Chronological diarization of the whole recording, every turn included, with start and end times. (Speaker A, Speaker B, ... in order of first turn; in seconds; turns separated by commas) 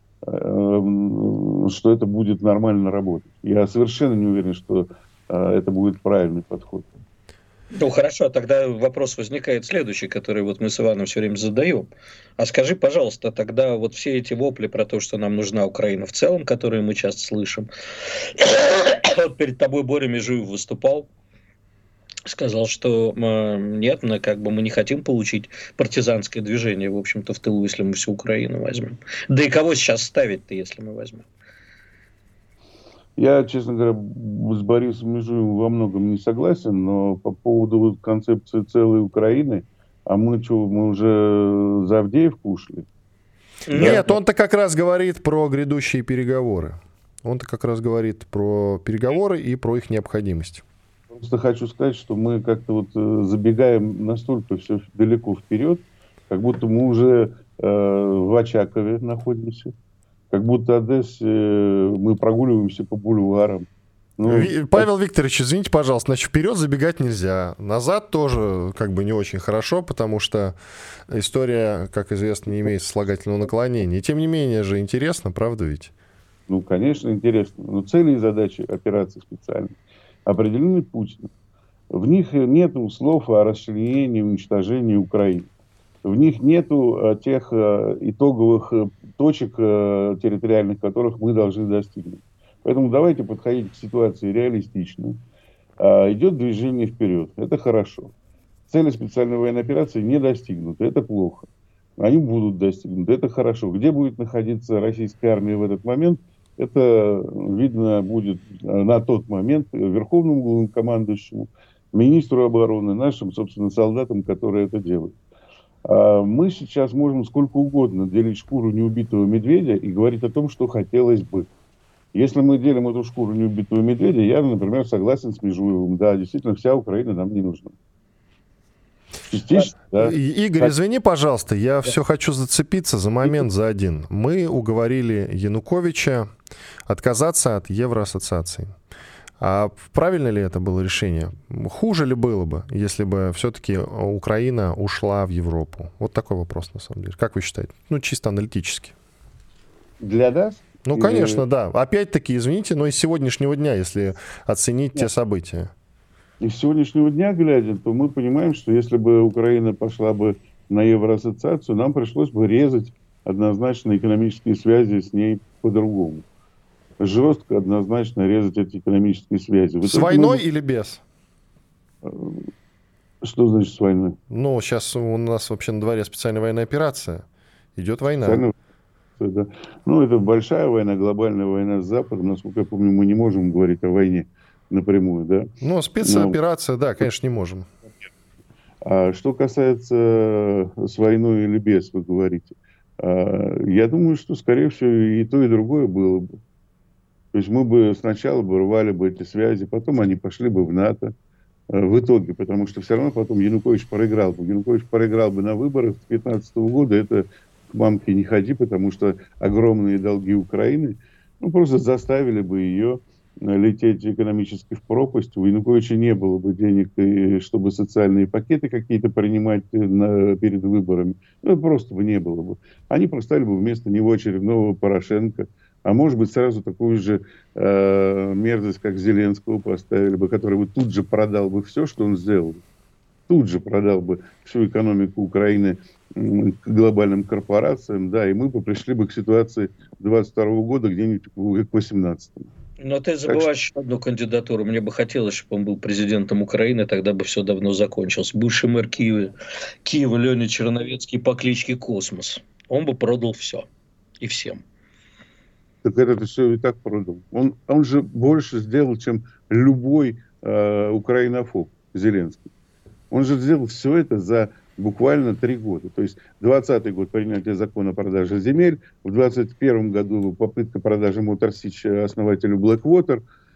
Speaker A: 0.2-6.9, Speaker B: 7.7-21.1, Speaker B: 22.3-31.3, Speaker A: 33.2-42.9, Speaker B: 43.7-44.2, Speaker A: 43.7-44.0, Speaker C: 43.8-50.6, Speaker A: 51.1-59.7, Speaker A: 60.3-63.7, Speaker A: 64.2-64.9, Speaker C: 64.3-70.6, Speaker C: 71.1-75.9, Speaker A: 76.5-81.3, Speaker A: 81.9-85.5, Speaker A: 86.0-95.2, Speaker A: 95.8-98.1, Speaker A: 98.7-101.5, Speaker A: 102.0-115.2, Speaker A: 115.9-121.5, Speaker A: 122.1-127.7, Speaker A: 129.3-130.7, Speaker C: 130.0-136.3, Speaker C: 136.9-138.7, Speaker C: 139.4-148.9, Speaker A: 150.0-151.4, Speaker C: 150.8-155.7, Speaker A: 156.4-166.2, Speaker A: 167.0-170.4, Speaker C: 169.8-171.0, Speaker A: 172.0-172.5, Speaker A: 173.2-174.2, Speaker C: 174.3-177.2, Speaker C: 177.8-178.4, Speaker A: 178.2-178.6, Speaker A: 179.2-185.5, Speaker C: 185.6-187.7, Speaker A: 186.0-186.4, Speaker A: 188.8-196.3, Speaker A: 197.3-201.1, Speaker A: 201.7-232.6, Speaker A: 233.3-242.5, Speaker B: 242.8-253.7, Speaker B: 254.2-254.6, Speaker A: 255.8-262.5, Speaker A: 263.1-273.2